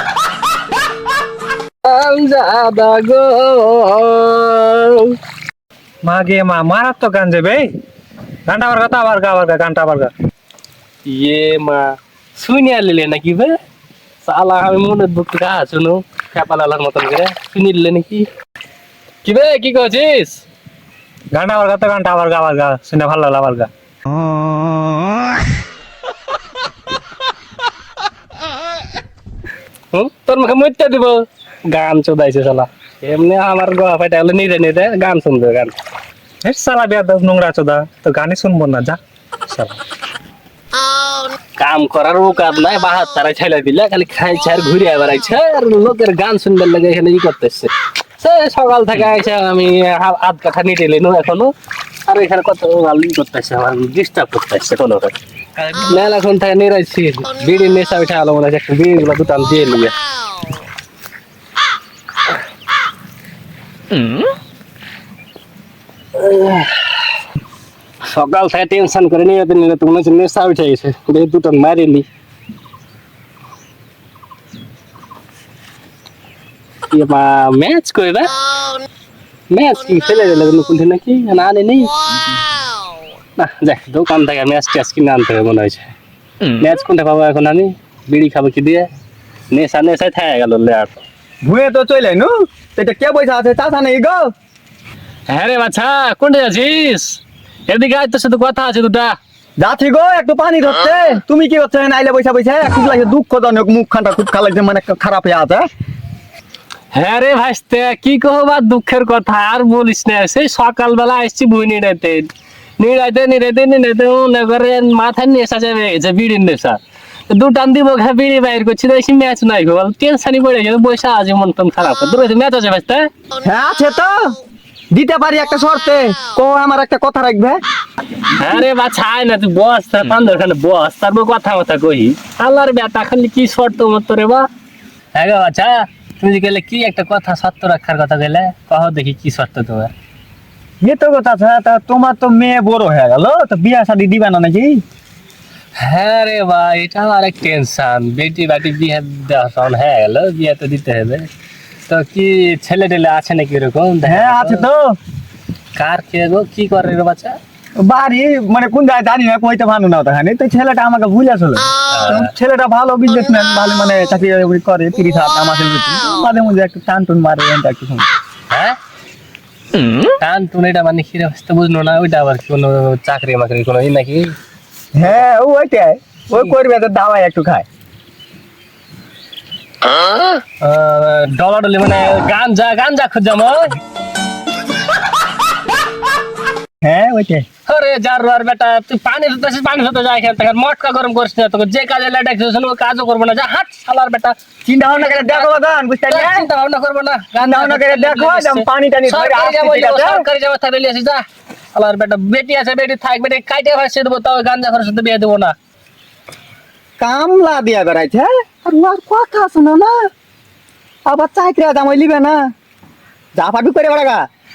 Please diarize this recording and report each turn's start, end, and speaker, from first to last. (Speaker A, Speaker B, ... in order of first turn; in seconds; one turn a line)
Speaker A: 1.8-5.2
Speaker B: 6.0-7.8
Speaker B: 8.5-10.1
Speaker A: 11.0-13.6
Speaker A: 14.2-18.3
Speaker A: 19.2-20.4
Speaker B: 21.3-23.7
Speaker A: 29.9-35.7
Speaker B: 36.4-39.7
Speaker A: 41.6-51.5
Speaker A: 52.1-60.0
Speaker A: 66.1-67.0
Speaker A: 68.1-72.0
Speaker A: 76.9-78.3
Speaker A: 79.5-81.9
Speaker A: 83.4-88.9
Speaker A: 89.5-91.0
Speaker C: 91.4-94.3
Speaker A: 95.3-99.1
Speaker C: 99.6-105.7
Speaker A: 106.9-112.3
Speaker A: 112.8-123.1
Speaker C: 123.4-124.4
Speaker C: 124.9-127.6
Speaker A: 128.3-134.4
Speaker A: 135.1-139.9
Speaker C: 140.8-144.8
Speaker A: 145.8-151.3
Speaker A: 151.9-154.7
Speaker C: 154.0-155.0
Speaker A: 155.8-157.4
Speaker C: 157.8-168.1
Speaker A: 161.9-162.3
Speaker A: 168.5-168.8
Speaker A: 170.2-174.3
Speaker C: 174.9-177.7
Speaker A: 179.9-183.7
Speaker C: 186.8-187.4
Speaker A: 187.7-194.3
Speaker C: 194.6-196.5
Speaker A: 194.9-195.5
Speaker A: 196.1-201.2
Speaker C: 197.3-200.2
Speaker A: 201.7-205.5
Speaker C: 207.0-210.1
Speaker C: 211.1-212.5
Speaker C: 213.3-214.2